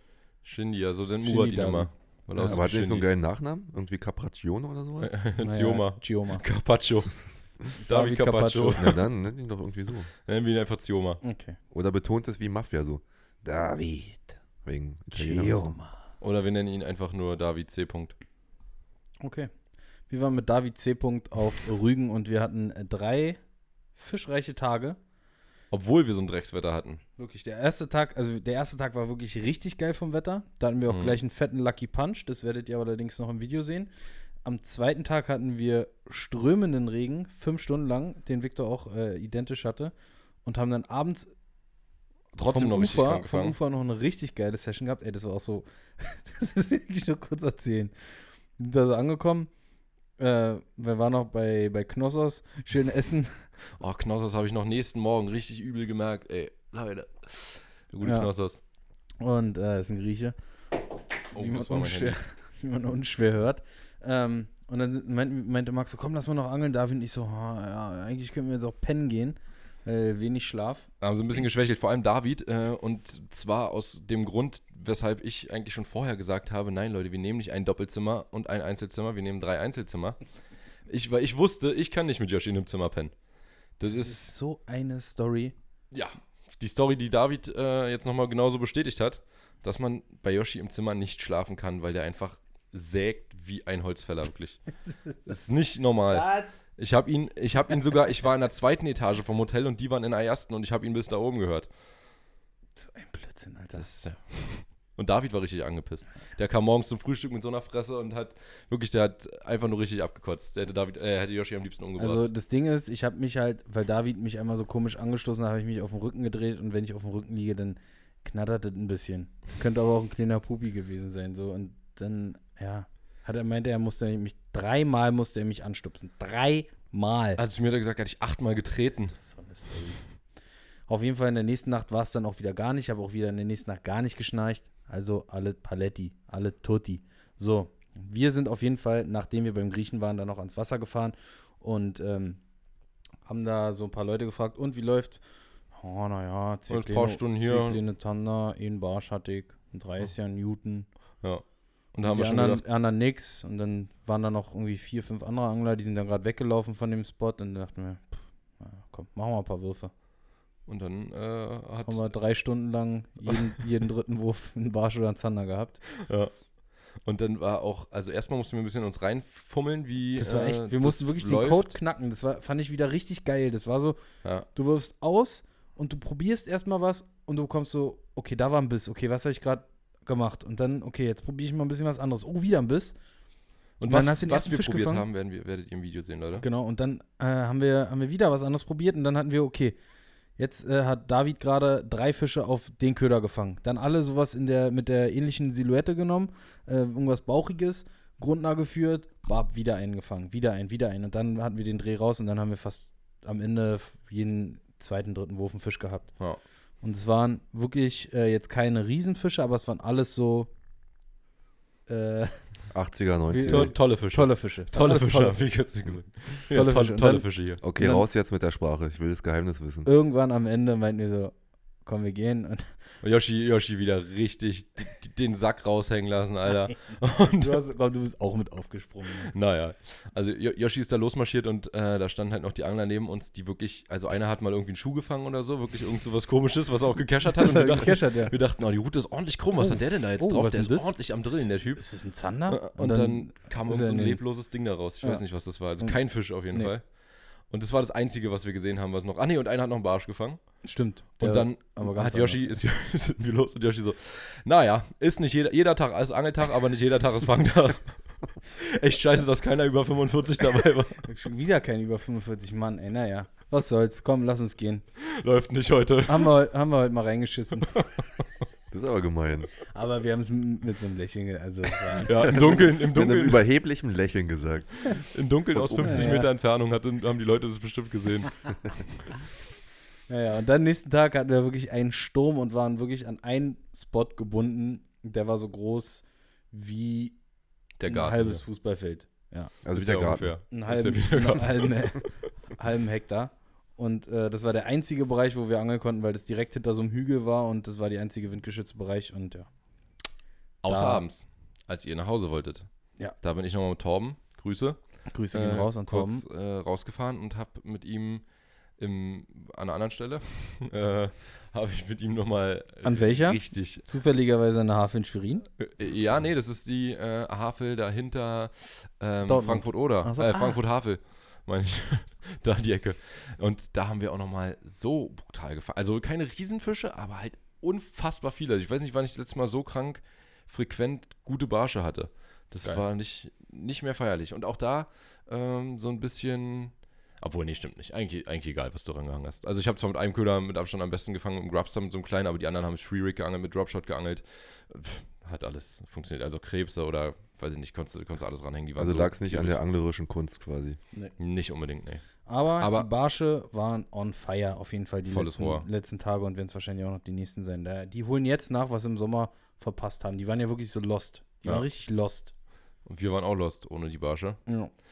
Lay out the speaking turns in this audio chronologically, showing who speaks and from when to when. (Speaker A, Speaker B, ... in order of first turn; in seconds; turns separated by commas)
Speaker A: 0.4-3.0, Speaker B: 1.2-2.6, Speaker C: 2.4-5.1, Speaker A: 5.0-9.0, Speaker B: 5.4-6.5, Speaker B: 7.8-8.9, Speaker C: 8.8-10.1, Speaker A: 10.2-11.2, Speaker B: 11.2-11.6, Speaker C: 11.7-13.5, Speaker B: 13.4-14.3, Speaker C: 14.6-15.8, Speaker B: 15.1-16.0, Speaker A: 16.2-18.1, Speaker B: 19.2-19.5, Speaker B: 20.1-23.4, Speaker B: 23.9-25.0, Speaker A: 25.7-27.0, Speaker B: 27.2-33.9, Speaker A: 30.9-31.2, Speaker B: 34.4-39.9, Speaker B: 40.4-41.3, Speaker A: 42.3-43.5, Speaker B: 42.4-47.9, Speaker B: 48.6-49.5, Speaker B: 50.2-53.5, Speaker A: 53.8-58.6, Speaker B: 58.0-58.3, Speaker B: 59.2-60.3, Speaker B: 61.3-70.9, Speaker A: 61.3-62.2, Speaker A: 71.0-80.2, Speaker A: 80.9-83.1, Speaker A: 83.8-84.3, Speaker B: 83.8-85.5, Speaker A: 85.9-101.7, Speaker B: 96.1-96.5, Speaker B: 102.8-103.8, Speaker A: 103.7-112.3, Speaker B: 112.0-127.4, Speaker A: 127.4-129.1, Speaker B: 129.0-130.0, Speaker B: 130.9-142.4, Speaker B: 143.2-145.2, Speaker B: 145.7-150.9, Speaker A: 146.7-147.8, Speaker A: 151.2-152.7, Speaker B: 152.0-159.9, Speaker A: 160.7-162.0, Speaker B: 161.8-165.8, Speaker A: 166.0-166.3, Speaker A: 167.0-171.7, Speaker B: 170.2-174.0, Speaker B: 174.5-182.9, Speaker A: 183.8-186.4, Speaker B: 183.8-185.1, Speaker B: 186.4-189.8, Speaker B: 190.4-206.2, Speaker B: 206.8-210.5, Speaker B: 211.9-212.4, Speaker C: 212.7-213.7, Speaker B: 213.3-215.4, Speaker A: 213.5-217.6, Speaker B: 216.5-218.0, Speaker C: 217.6-219.9, Speaker B: 219.8-222.7, Speaker A: 223.0-227.6, Speaker B: 227.3-229.3, Speaker A: 229.2-241.9, Speaker B: 237.3-238.3, Speaker B: 239.6-244.2, Speaker A: 242.5-246.9, Speaker B: 245.0-245.2, Speaker A: 247.5-250.6, Speaker B: 250.6-252.6, Speaker A: 251.2-261.0, Speaker B: 261.0-264.8, Speaker A: 265.0-266.3, Speaker B: 266.1-267.8, Speaker A: 267.7-268.0, Speaker C: 268.7-269.5, Speaker B: 269.7-272.6, Speaker A: 272.0-273.4, Speaker C: 272.6-275.0, Speaker A: 274.9-278.4, Speaker C: 275.5-276.1, Speaker B: 275.8-276.3, Speaker B: 280.1-287.2, Speaker A: 287.8-288.4, Speaker B: 287.8-289.5, Speaker C: 289.6-290.4, Speaker A: 289.7-292.1, Speaker B: 290.5-299.5, Speaker A: 300.6-302.7, Speaker B: 300.7-301.0, Speaker A: 303.2-308.2, Speaker B: 305.1-306.2, Speaker A: 308.8-313.8, Speaker B: 312.8-315.5, Speaker A: 315.6-349.6, Speaker B: 319.2-320.6, Speaker C: 348.8-350.8, Speaker A: 351.2-352.9, Speaker B: 352.2-362.3, Speaker A: 355.1-355.6, Speaker A: 362.8-364.4, Speaker B: 364.4-364.7